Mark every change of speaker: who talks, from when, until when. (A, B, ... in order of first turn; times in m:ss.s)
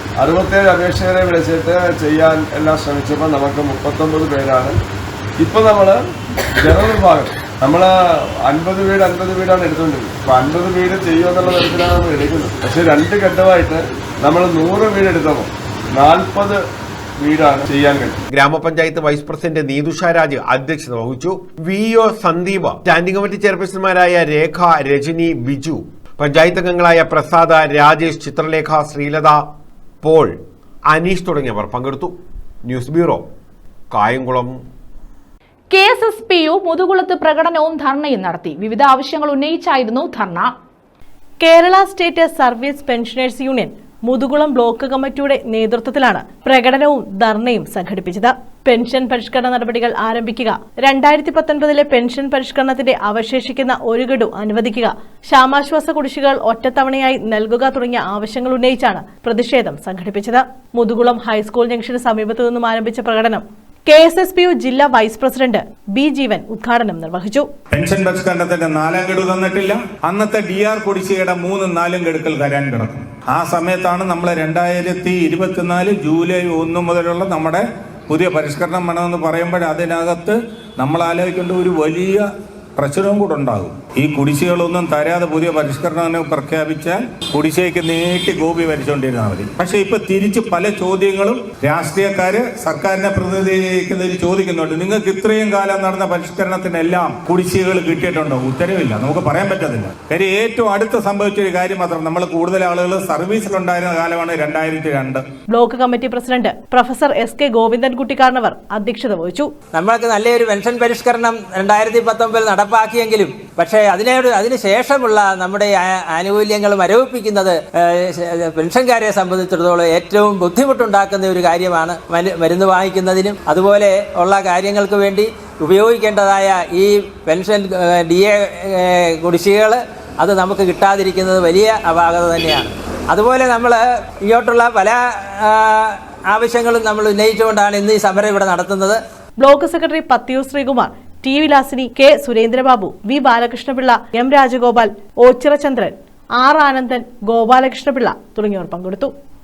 0:00.2-0:04.8 A
0:05.4-0:06.0 A
0:06.6-0:07.9 A
0:08.4-0:16.6 A
0:17.2-0:18.2 A
0:18.3-0:29.4 B
0:30.0-0:30.4 B
0:30.9-0:32.1 B
0:32.6-0:33.2 B
0:33.9-0:34.6 B
0:35.7-0:40.5 C
0:41.4-1:07.5 D
1:07.7-1:22.2 E
1:22.8-1:45.2 E
1:45.5-1:49.5 D
1:49.7-2:19.0 F
2:19.4-2:29.1 D